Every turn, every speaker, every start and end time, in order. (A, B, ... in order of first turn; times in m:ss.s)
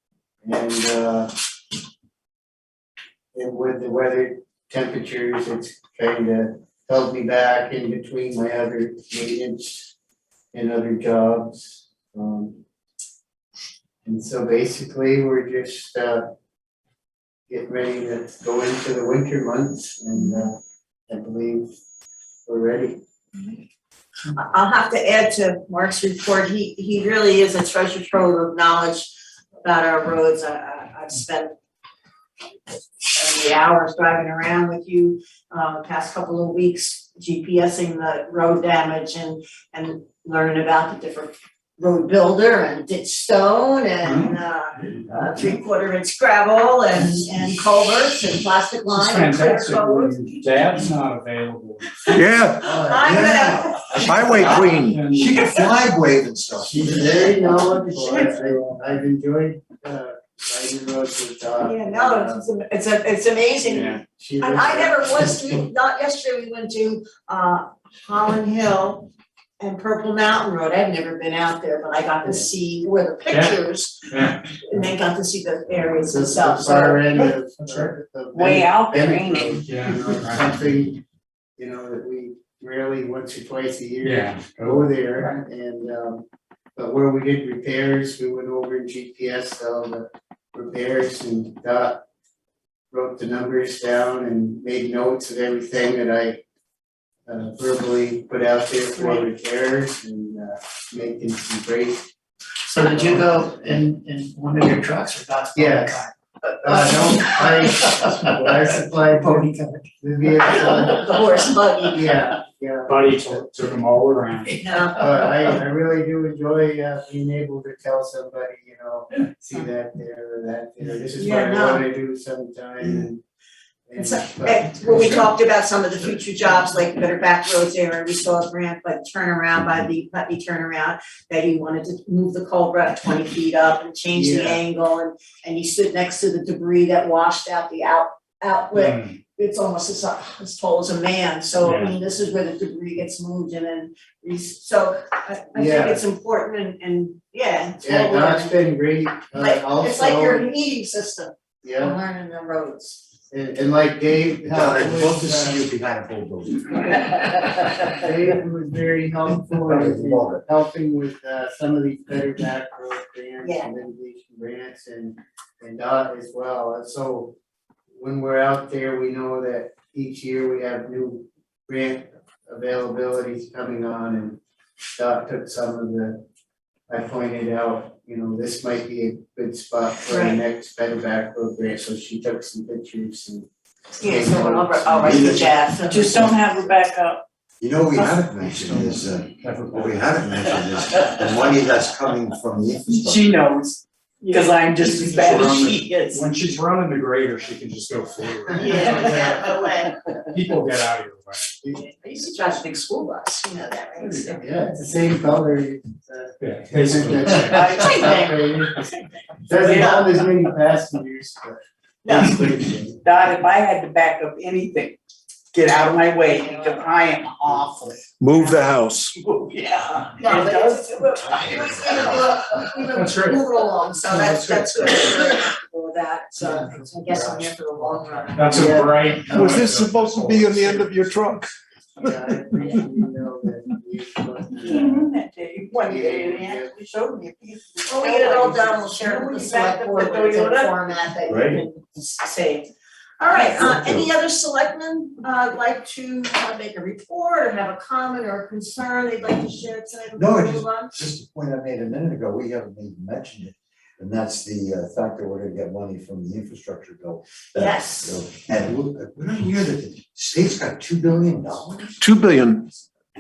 0:00.4-0:01.3 A
0:03.3-0:09.9 A
0:10.5-0:12.6 A
0:14.0-0:16.3 A
0:17.5-0:20.6 A
0:21.1-0:21.7 A
0:22.4-0:23.0 A
0:24.3-0:29.1 B
0:29.6-0:31.5 B
0:33.0-0:50.2 B
0:44.0-0:45.5 C
0:48.9-0:52.3 C
0:52.1-0:52.6 D
0:52.6-0:54.1 B
0:52.6-0:53.5 A
0:53.0-0:57.3 E
0:53.9-0:55.7 C
0:54.0-0:55.0 D
0:56.6-1:02.4 A
1:01.6-1:09.1 B
1:03.6-1:04.0 C
1:04.2-1:05.7 A
1:09.6-1:17.0 B
1:12.2-1:12.5 A
1:13.3-1:14.4 C
1:16.1-1:21.0 A
1:17.6-1:17.9 C
1:18.3-1:19.6 F
1:19.6-1:20.6 C
1:21.6-1:32.0 A
1:24.0-1:25.3 C
1:32.9-1:36.4 A
1:37.2-1:42.1 A
1:42.7-1:46.1 G
1:42.8-1:43.5 A
1:45.5-1:46.0 A
1:46.6-1:51.3 A
1:46.7-1:47.4 G
1:49.1-1:49.8 G
1:50.6-1:52.2 B
1:51.9-1:53.1 A
1:52.9-1:54.7 C
1:54.6-1:55.2 B
1:54.9-2:03.2 A
2:01.2-2:01.8 B
2:03.9-2:05.2 A
2:04.0-2:28.6 B
2:14.1-2:14.6 A
2:18.7-2:19.2 C
2:21.6-2:21.9 C
2:25.5-2:26.0 A
2:27.8-2:30.5 A
2:29.4-2:33.0 B
2:31.6-2:31.9 A
2:33.3-2:35.6 A
2:34.5-2:36.9 E
2:37.8-2:47.4 A
2:39.5-2:40.4 E
2:43.4-2:43.7 B
2:47.9-2:54.4 A
2:54.9-2:56.2 A
2:56.9-3:03.5 A
3:00.1-3:00.4 B
3:04.0-3:06.5 B
3:04.0-3:05.6 A
3:05.0-3:05.6 E
3:05.8-3:07.2 F
3:07.6-3:13.3 E
3:08.5-3:10.2 C
3:12.9-3:16.2 F
3:14.2-3:14.5 B
3:14.8-3:19.5 C
3:18.6-3:20.1 B
3:18.7-3:19.2 A
3:20.3-3:21.5 C
3:21.6-3:24.4 B
3:24.0-3:24.4 C
3:24.4-3:28.8 A
3:26.4-3:28.1 C
3:27.5-3:28.0 F
3:27.5-3:28.6 B
3:29.4-3:33.0 A
3:29.6-3:30.2 F
3:29.7-3:30.1 B
3:32.0-3:32.4 B
3:32.9-3:35.0 F
3:35.5-3:41.7 F
3:38.2-3:39.1 D
3:40.2-3:48.8 B
3:41.2-3:42.2 E
3:43.0-3:43.4 C
3:44.1-3:44.7 C
3:48.3-3:51.2 C
3:48.5-3:49.7 A
3:49.3-3:52.2 D
3:52.0-3:55.0 A
3:54.6-4:00.8 F
3:55.8-3:56.7 A
3:57.8-4:01.8 B
4:01.3-4:02.7 F
4:03.2-4:10.9 B
4:03.3-4:03.6 F
4:03.3-4:04.1 E
4:10.1-4:22.0 E
4:17.6-4:18.2 B
4:22.0-4:22.8 D